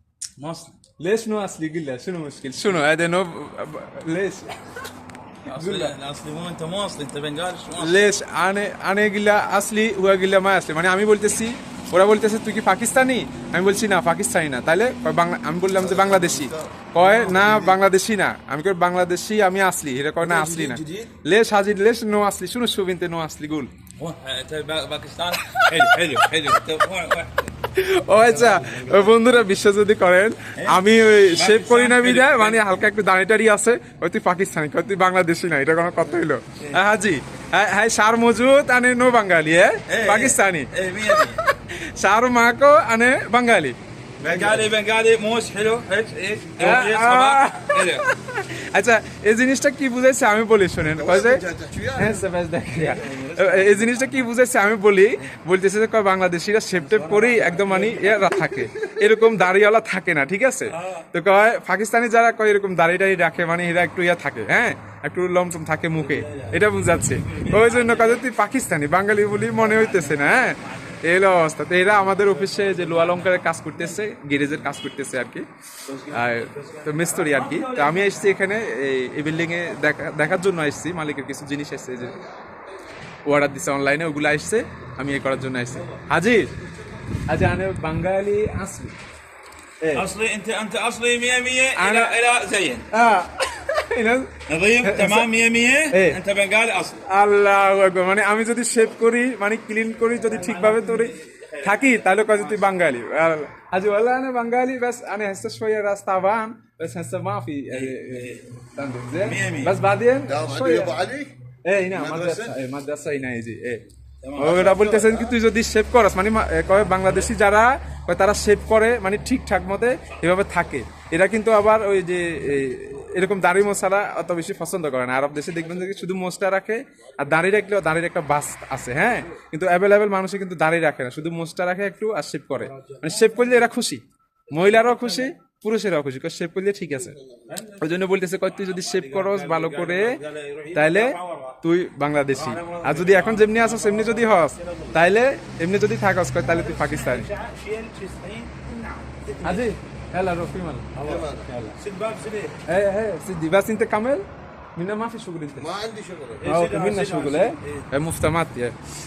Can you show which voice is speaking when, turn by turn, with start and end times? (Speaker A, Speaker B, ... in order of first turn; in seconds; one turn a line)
Speaker A: 0.4-0.7
Speaker B: 1.0-4.6
Speaker A: 5.5-8.0
Speaker B: 5.5-5.9
Speaker B: 7.8-23.7
Speaker C: 15.8-17.8
Speaker A: 20.2-21.1
Speaker A: 24.0-27.5
Speaker B: 27.7-40.7
Speaker A: 28.3-29.0
Speaker A: 30.6-32.9
Speaker A: 39.9-41.4
Speaker B: 41.2-43.8
Speaker A: 44.2-48.1
Speaker C: 44.3-44.6
Speaker B: 46.6-51.4
Speaker C: 50.8-52.2
Speaker B: 51.9-75.4
Speaker A: 52.8-54.2
Speaker A: 56.8-58.3
Speaker A: 60.7-61.0
Speaker A: 66.0-68.2
Speaker A: 69.6-70.9
Speaker A: 72.0-73.4
Speaker A: 75.9-78.4
Speaker B: 76.1-82.2
Speaker B: 83.2-86.5
Speaker B: 87.3-88.9
Speaker A: 89.9-92.9
Speaker B: 91.8-92.2
Speaker B: 92.9-95.3
Speaker A: 94.5-97.0
Speaker B: 95.9-96.2
Speaker B: 97.0-110.9
Speaker A: 100.1-102.7
Speaker A: 107.7-108.5
Speaker A: 109.2-109.7
Speaker C: 110.3-111.3
Speaker B: 111.7-137.1
Speaker C: 111.9-112.6
Speaker A: 114.2-115.3
Speaker A: 117.0-117.3
Speaker A: 132.9-133.6
Speaker A: 134.5-135.3
Speaker A: 137.5-141.6
Speaker B: 137.8-140.2
Speaker B: 140.7-147.3
Speaker A: 142.3-144.9
Speaker A: 146.4-149.7
Speaker B: 149.4-150.9
Speaker A: 150.9-152.5
Speaker C: 151.0-151.5
Speaker B: 151.4-151.7
Speaker B: 152.7-154.2
Speaker B: 154.8-155.8
Speaker C: 155.6-156.5
Speaker A: 156.4-157.8
Speaker B: 156.4-158.7